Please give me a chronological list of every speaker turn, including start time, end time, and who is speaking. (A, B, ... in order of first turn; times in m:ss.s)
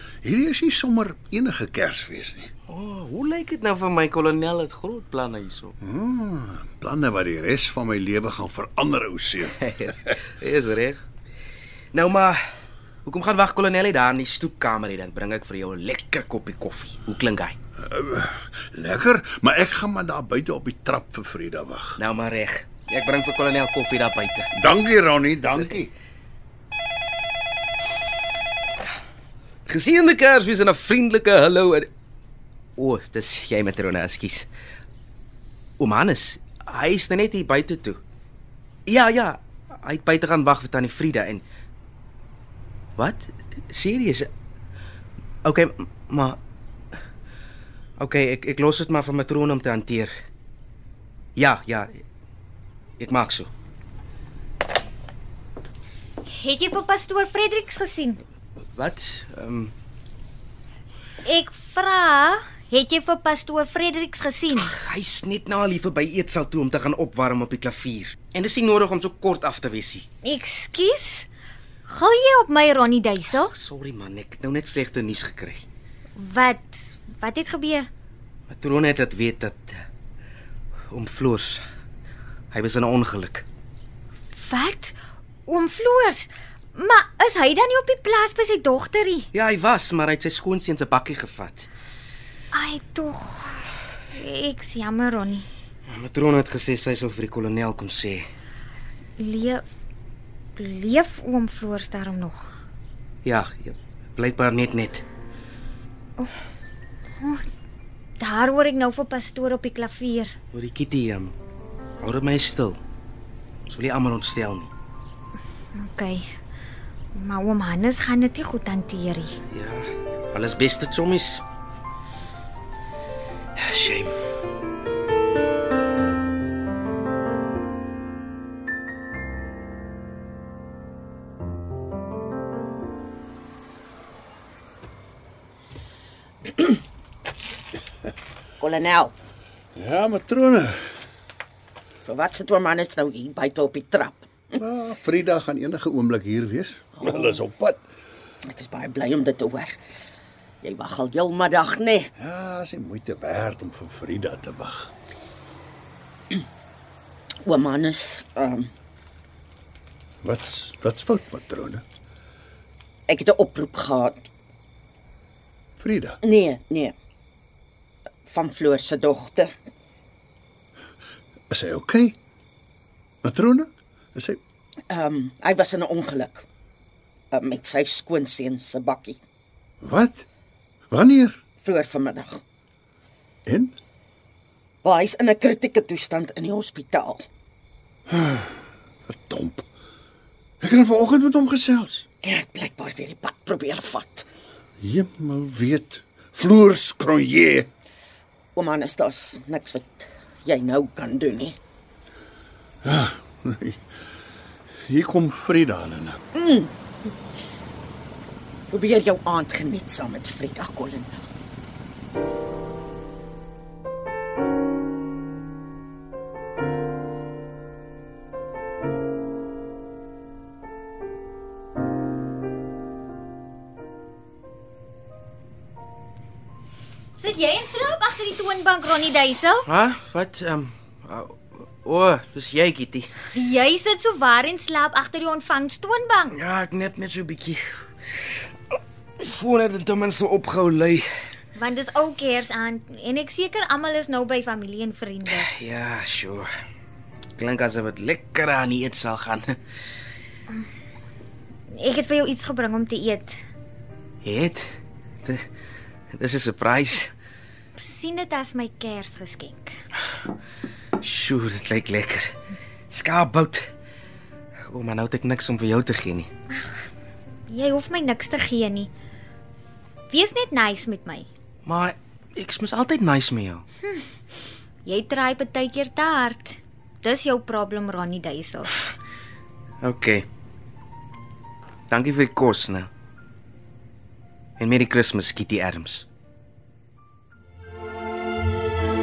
0:00.2-0:02.5 A
0:02.7-0:05.7 B
0:05.8-0:09.6 A
0:09.6-0:11.0 B
0:11.9-0:12.4 B
0:13.0-0:17.6 B
0:17.8-0:22.0 A
0:22.0-0:24.5 B
0:24.5-0:25.9 A
0:29.6-0:31.9 B
0:32.8-0:34.5 B
0:35.8-0:38.0 B
0:38.9-0:41.4 B
0:43.0-0:44.3 B
0:45.4-0:46.4 B
0:48.0-0:50.1 B
0:51.4-0:52.0 B
0:53.0-0:53.5 B
0:56.2-0:58.2 C
0:58.8-0:59.7 B
1:01.2-1:04.7 C
1:04.6-1:10.0 B
1:10.2-1:11.3 C
1:11.9-1:13.5 C
1:13.5-1:15.6 B
1:16.2-1:17.9 C
1:18.5-1:19.8 B
1:20.9-1:21.6 B
1:22.5-1:23.4 B
1:24.4-1:29.3 C
1:29.3-1:31.7 B
1:32.5-1:35.5 C
1:35.9-1:38.3 B
1:39.2-1:39.6 C
1:40.6-1:42.4 C
1:43.2-1:45.0 B
1:47.2-1:47.4 C
1:48.2-1:50.3 C
1:50.5-1:51.4 B
1:52.0-1:52.8 B
1:53.7-1:54.7 B
1:55.8-1:56.2 C
1:57.1-1:59.4 C
1:59.5-2:01.4 B
2:03.6-2:04.1 B
2:18.6-2:19.1 D
2:19.8-2:20.8 A
2:22.0-2:24.6 D
2:24.5-2:27.8 A
2:28.5-2:29.8 D
2:30.6-2:32.1 D
2:32.2-2:34.9 A
2:37.4-2:38.7 D
2:40.2-2:41.8 A
2:43.1-2:44.3 D
2:45.8-2:46.2 A
2:46.2-2:46.9 D
2:48.3-2:49.5 D
2:51.5-2:52.2 A
2:53.2-2:54.4 A
2:54.9-2:56.4 D
2:57.3-2:59.2 D
2:59.8-3:00.2 A
3:00.9-3:01.4 A
3:01.6-3:02.4 D
3:03.4-3:03.8 A
3:04.8-3:07.2 D
3:08.1-3:09.6 A
3:10.6-3:12.0 A
3:12.2-3:14.2 D
3:14.8-3:17.7 A
3:18.5-3:21.6 D
3:22.8-3:23.8 A
3:24.9-3:26.2 A
3:26.3-3:26.7 D
3:28.7-3:31.2 D
3:47.2-3:49.7 C
3:49.7-3:53.1 B
3:53.3-3:56.4 C
3:56.3-3:57.6 B
3:59.2-4:01.0 B
4:01.6-4:05.5 C
4:05.3-4:06.5 B
4:07.4-4:09.4 B
4:11.7-4:13.4 C
4:14.2-4:14.7 B
4:16.1-4:17.1 B
4:17.8-4:19.8 C
4:21.0-4:22.4 B
4:22.9-4:23.7 B
4:24.7-4:26.3 B
4:26.5-4:26.9 C
4:27.5-4:28.9 C
4:30.1-4:31.3 C
4:31.6-4:33.6 B
4:33.8-4:34.1 C
4:34.8-4:38.8 C
4:39.8-4:40.2 B
4:41.9-4:42.9 B
4:44.6-4:46.1 B